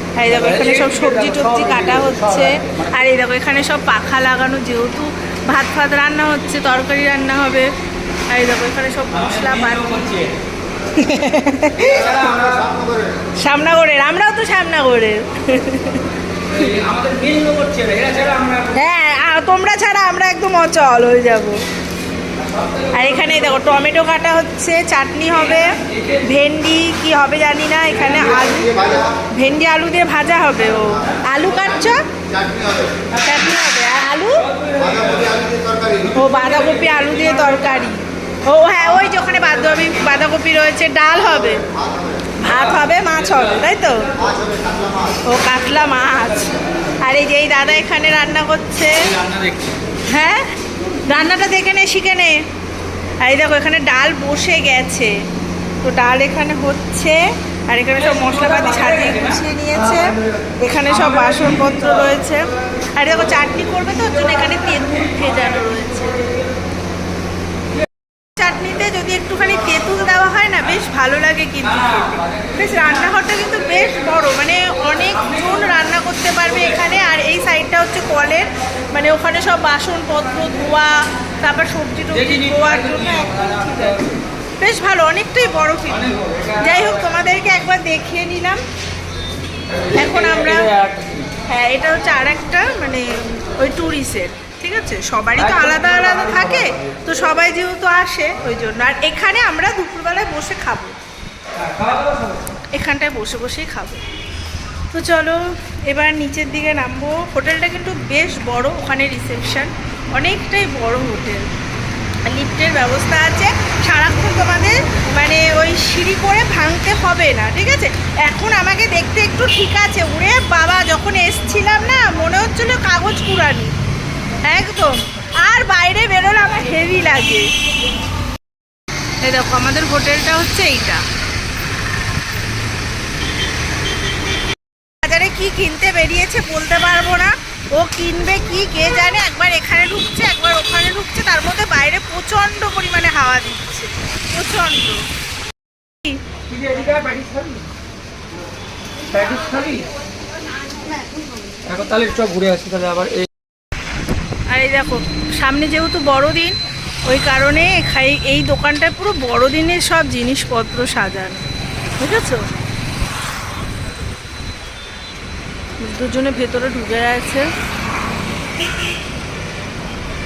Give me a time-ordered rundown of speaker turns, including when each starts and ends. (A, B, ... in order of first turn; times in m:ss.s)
0:00.2-0:07.7 A
0:00.3-0:03.0 B
0:08.3-0:10.1 A
0:09.2-0:10.3 B
0:10.9-0:12.3 A
0:11.9-0:12.7 B
0:13.4-0:16.7 A
0:16.5-0:18.8 B
0:18.7-0:21.6 A
0:22.6-0:22.9 B
0:22.9-0:32.0 A
0:33.1-0:34.5 A
0:34.7-0:35.4 B
0:36.1-0:41.6 A
0:42.4-0:44.1 A
0:45.3-0:49.1 A
0:49.2-0:49.8 B
0:50.1-0:50.4 A
0:51.1-0:52.3 A
0:53.2-0:55.1 A
0:55.8-1:02.4 A
1:03.0-1:06.2 A
1:08.4-1:24.0 A
1:22.3-1:24.1 B
1:24.6-1:28.6 A
1:29.9-1:30.7 A
1:30.0-1:31.3 B
1:31.4-1:40.9 A
1:35.5-1:36.7 B
1:41.6-1:42.4 B
1:42.7-1:44.0 A
1:44.9-1:51.4 A
1:52.2-2:03.7 A
2:04.4-2:07.4 A
2:09.2-2:11.0 A
2:15.0-2:25.0 A
2:26.5-2:27.6 B
2:29.1-2:29.9 B
2:31.6-2:33.3 B
2:34.5-2:41.4 A
2:42.0-2:42.4 A
2:45.8-2:47.5 A